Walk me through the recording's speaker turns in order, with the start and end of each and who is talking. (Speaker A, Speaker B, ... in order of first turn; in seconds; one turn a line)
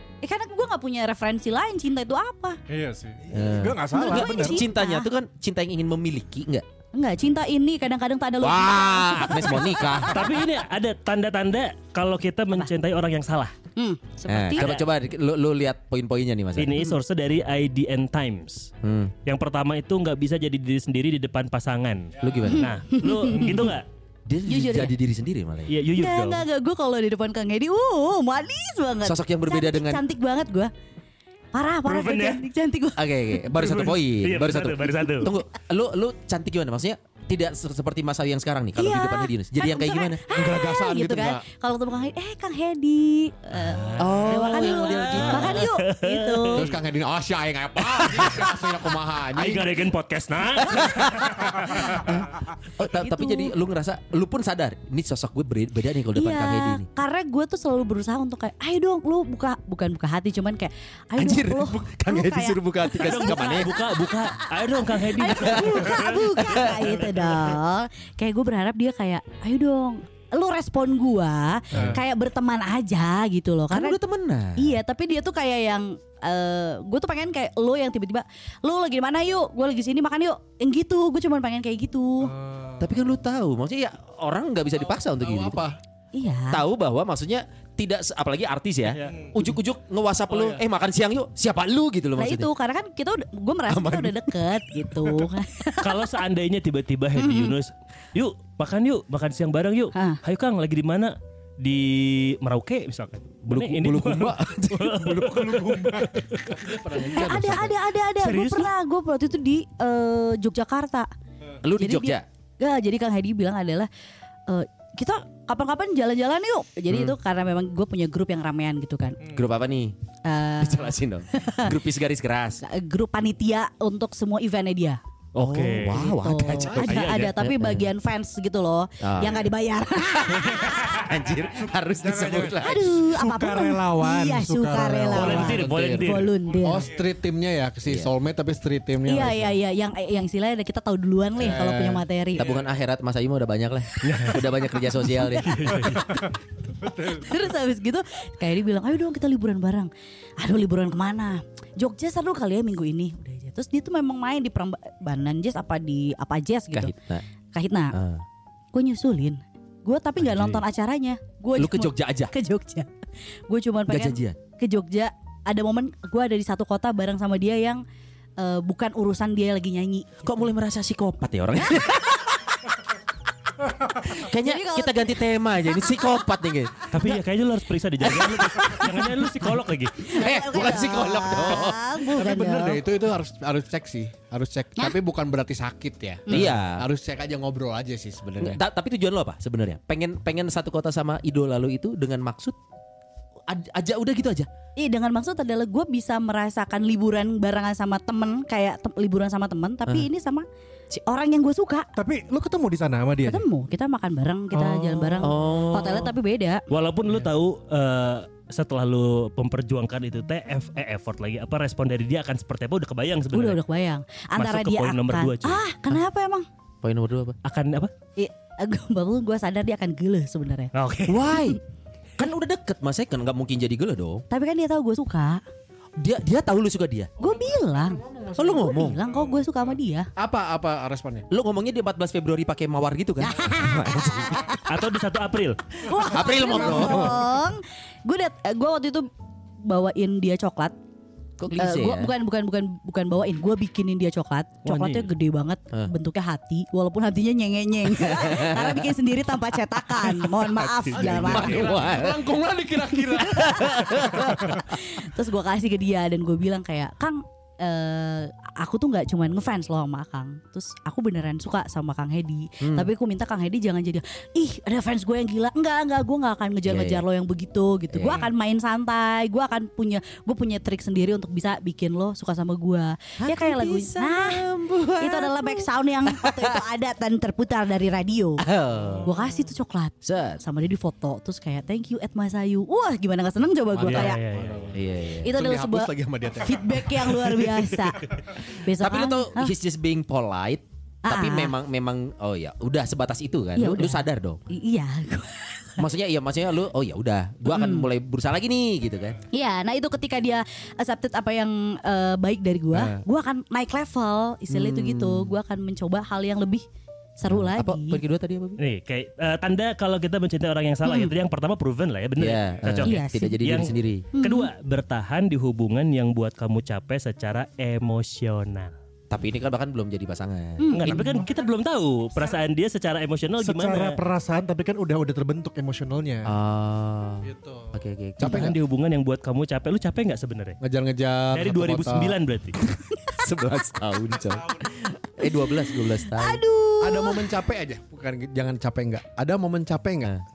Speaker A: 0.2-2.6
Speaker B: 2.7-4.6
Speaker C: 3.3-6.7
Speaker A: 3.9-5.1
Speaker A: 6.9-10.3
Speaker C: 8.4-10.2
Speaker D: 10.1-13.5
Speaker A: 13.8-14.8
Speaker C: 14.3-16.9
Speaker D: 14.6-14.8
Speaker D: 16.6-18.7
Speaker C: 18.8-19.1
Speaker D: 19.2-23.9
Speaker C: 22.2-22.7
Speaker A: 22.5-23.7
Speaker C: 24.3-25.7
Speaker A: 24.4-24.9
Speaker D: 25.7-26.4
Speaker A: 25.9-30.7
Speaker C: 29.0-30.0
Speaker A: 31.5-33.2
Speaker D: 31.9-32.4
Speaker C: 33.0-40.2
Speaker D: 33.5-35.3
Speaker A: 38.8-46.7
Speaker E: 40.3-41.4
Speaker D: 43.5-46.7
Speaker C: 44.0-45.7
Speaker E: 46.5-49.7
Speaker D: 48.1-48.5
Speaker D: 49.3-51.8
Speaker C: 50.6-56.9
Speaker A: 52.9-53.5
Speaker A: 56.1-74.0
Speaker C: 61.1-63.8
Speaker D: 63.0-66.6
Speaker C: 65.3-67.0
Speaker C: 71.7-72.0
Speaker C: 73.7-74.7
Speaker A: 74.6-82.3
Speaker B: 82.3-82.8
Speaker C: 82.8-85.6
Speaker E: 85.1-85.8
Speaker A: 86.1-86.6
Speaker C: 86.5-92.5
Speaker A: 92.2-96.1
Speaker C: 93.7-94.3
Speaker D: 95.8-106.7
Speaker A: 97.2-97.5
Speaker A: 99.9-100.2
Speaker C: 103.5-105.6
Speaker B: 105.1-106.1
Speaker E: 106.6-107.7
Speaker A: 107.1-111.1
Speaker D: 108.2-108.7
Speaker C: 111.6-112.2
Speaker A: 111.8-113.9
Speaker A: 114.5-119.2
Speaker C: 116.9-117.2
Speaker C: 119.3-120.0
Speaker A: 120.2-121.8
Speaker C: 120.6-122.6
Speaker A: 122.6-125.0
Speaker D: 125.3-126.2
Speaker C: 125.4-127.8
Speaker A: 126.0-131.0
Speaker D: 126.8-127.4
Speaker C: 129.0-129.4
Speaker C: 130.2-133.0
Speaker B: 132.0-135.4
Speaker A: 132.6-136.9
Speaker D: 135.1-136.3
Speaker E: 135.3-136.1
Speaker E: 136.6-139.5
Speaker C: 137.8-138.1
Speaker A: 139.0-142.5
Speaker E: 141.4-142.0
Speaker C: 142.3-145.9
Speaker D: 144.0-144.4
Speaker D: 145.4-146.2
Speaker B: 146.8-147.3
Speaker A: 147.0-156.9
Speaker C: 156.7-157.2
Speaker A: 157.5-157.9
Speaker C: 157.9-158.2
Speaker A: 158.7-162.9
Speaker C: 160.2-160.6
Speaker C: 161.6-162.3
Speaker A: 163.5-167.8
Speaker C: 163.9-164.4
Speaker A: 168.4-170.4
Speaker C: 170.2-172.6
Speaker C: 173.9-176.9
Speaker A: 174.2-175.1
Speaker D: 176.9-180.1
Speaker A: 180.0-182.8
Speaker C: 180.1-181.9
Speaker E: 182.0-188.6
Speaker A: 186.3-186.5
Speaker C: 186.3-186.8
Speaker C: 188.4-192.6
Speaker C: 193.5-194.5
Speaker A: 194.8-201.9
Speaker B: 201.9-203.4
Speaker A: 203.2-206.6
Speaker B: 204.7-205.1
Speaker C: 205.2-206.1
Speaker D: 206.7-213.6
Speaker A: 213.3-216.4
Speaker D: 214.3-215.6
Speaker C: 216.8-217.4
Speaker D: 217.4-217.9
Speaker A: 218.2-220.7
Speaker D: 220.7-221.3
Speaker C: 221.1-221.6
Speaker C: 222.2-224.2
Speaker A: 224.3-225.4
Speaker C: 226.0-227.1
Speaker A: 227.2-230.1
Speaker E: 227.8-228.7
Speaker C: 228.3-229.0
Speaker E: 230.2-231.2
Speaker C: 231.3-234.6
Speaker A: 233.2-234.6
Speaker D: 234.6-235.6
Speaker A: 235.8-239.1
Speaker C: 236.0-237.3
Speaker A: 239.6-240.7
Speaker C: 241.4-242.1
Speaker A: 241.6-251.7
Speaker D: 244.6-245.1
Speaker C: 247.9-248.9
Speaker D: 250.5-251.4
Speaker E: 250.9-254.2
Speaker C: 251.1-252.3
Speaker C: 253.2-254.8
Speaker A: 254.4-274.4
Speaker C: 262.6-262.9
Speaker C: 266.6-267.0
Speaker C: 267.9-268.3
Speaker C: 273.2-276.6
Speaker A: 275.0-278.4
Speaker C: 278.4-279.1
Speaker A: 279.0-284.2
Speaker C: 280.0-280.4
Speaker E: 283.8-287.6
Speaker D: 283.8-284.7
Speaker C: 284.7-285.4
Speaker A: 285.2-289.5
Speaker C: 288.7-294.4
Speaker A: 291.0-291.5
Speaker A: 293.6-295.9
Speaker C: 295.8-299.2
Speaker A: 297.5-297.9
Speaker A: 299.3-306.6
Speaker C: 302.7-303.0
Speaker C: 304.5-305.3
Speaker A: 307.2-308.0
Speaker C: 307.3-308.6
Speaker D: 308.6-318.7
Speaker A: 310.8-311.1
Speaker C: 312.2-314.1
Speaker A: 312.8-313.4
Speaker A: 314.1-314.5
Speaker C: 319.1-321.0
Speaker A: 320.6-321.1
Speaker D: 320.7-324.0
Speaker B: 323.4-326.3
Speaker C: 326.2-328.5
Speaker E: 328.2-328.6
Speaker D: 328.2-330.6
Speaker E: 330.6-332.2
Speaker D: 331.3-332.6
Speaker C: 332.6-336.4
Speaker A: 335.3-337.4
Speaker E: 336.8-340.1